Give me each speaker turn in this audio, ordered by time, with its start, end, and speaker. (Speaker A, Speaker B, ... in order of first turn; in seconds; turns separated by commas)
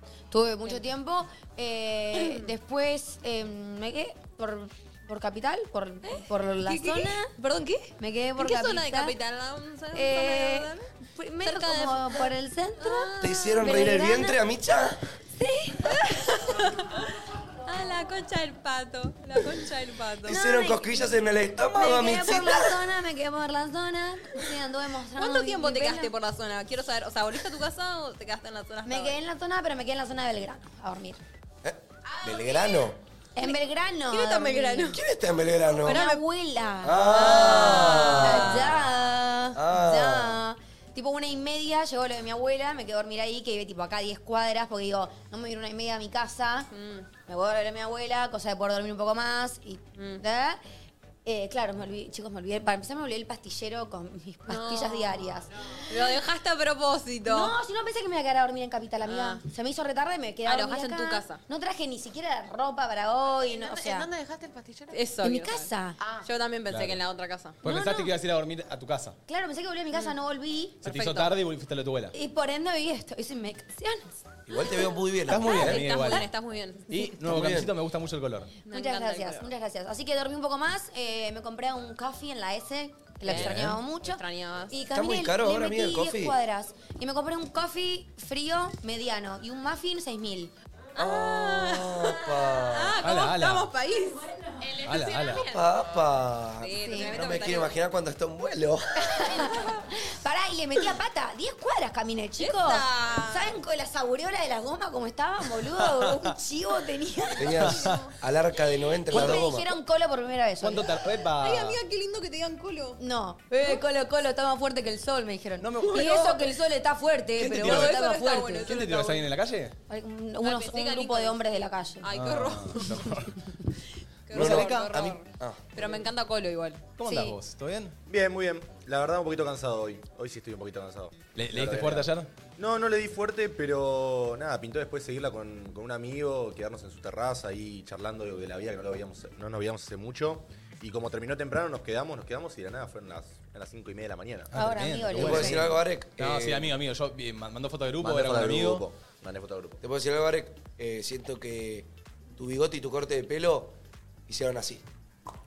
Speaker A: 0.3-7.3, Speaker B: 2.1-2.5, Speaker B: 6.1-10.9, Speaker A: 8.0-9.2, Speaker A: 9.9-14.4, Speaker B: 11.4-12.3, Speaker B: 12.8-14.0, Speaker C: 13.2-15.0, Speaker B: 15.4-17.1, Speaker B: 17.6-20.4, Speaker C: 20.2-22.7, Speaker A: 20.3-21.1, Speaker A: 21.7-26.1, Speaker B: 25.2-29.2, Speaker A: 28.8-31.2, Speaker C: 31.6-33.0, Speaker B: 32.1-32.9, Speaker A: 33.3-35.0, Speaker B: 33.4-35.0, Speaker C: 34.9-36.0, Speaker B: 35.8-36.2, Speaker A: 35.8-46.7, Speaker C: 36.8-38.8, Speaker B: 37.0-38.7, Speaker C: 39.5-40.4, Speaker B: 46.7-47.1, Speaker A: 47.3-50.6, Speaker B: 50.0-50.2, Speaker A: 51.2-56.2, Speaker B: 54.5-55.2, Speaker B: 55.9-57.5, Speaker A: 57.2-64.1, Speaker B: 59.0-59.4, Speaker B: 60.5-61.4, Speaker D: 63.4-65.0, Speaker B: 64.9-67.6, Speaker A: 65.2-66.0, Speaker D: 66.0-66.2, Speaker E: 66.7-67.0, Speaker E: 67.6-69.2, Speaker A: 67.6-68.1, Speaker A: 69.3-70.8, Speaker B: 70.8-71.3, Speaker E: 70.8-72.1, Speaker A: 72.1-74.2, Speaker C: 74.5-75.8, Speaker E: 75.3-76.3, Speaker B: 75.3-76.9, Speaker E: 76.9-78.5, Speaker C: 77.3-77.7, Speaker B: 78.7-79.5, Speaker A: 78.7-90.5, Speaker E: 83.2-83.8, Speaker B: 83.2-84.8, Speaker C: 84.9-86.3, Speaker C: 91.0-93.0, Speaker B: 91.0-95.6, Speaker E: 93.0-93.7, Speaker D: 94.6-95.4, Speaker E: 94.8-95.5, Speaker C: 95.4-99.2, Speaker B: 96.6-97.8, Speaker A: 96.8-97.2, Speaker A: 99.0-107.6, Speaker B: 102.4-103.6, Speaker B: 107.3-108.1, Speaker C: 107.4-109.7, Speaker E: 107.7-108.0, Speaker A: 109.1-110.9, Speaker E: 109.1-109.5, Speaker E: 110.6-111.8, Speaker B: 111.4-113.0, Speaker A: 113.0-118.7, Speaker E: 115.6-116.5, Speaker B: 115.9-116.3, Speaker E: 117.4-119.7, Speaker B: 117.5-119.2, Speaker A: 119.9-122.1, Speaker B: 120.4-121.5, Speaker B: 122.0-123.2, Speaker E: 122.1-123.4, Speaker B: 124.3-127.4, Speaker E: 124.3-125.2, Speaker C: 124.3-124.6, Speaker E: 127.0-128.0, Speaker F: 128.1-144.5, Speaker E: 131.4-132.3, Speaker E: 144.5-148.8, Speaker A: 144.5-145.7, Speaker C: 145.1-146.7, Speaker F: 148.0-149.8, Speaker C: 149.8-153.7, Speaker C: 154.3-154.8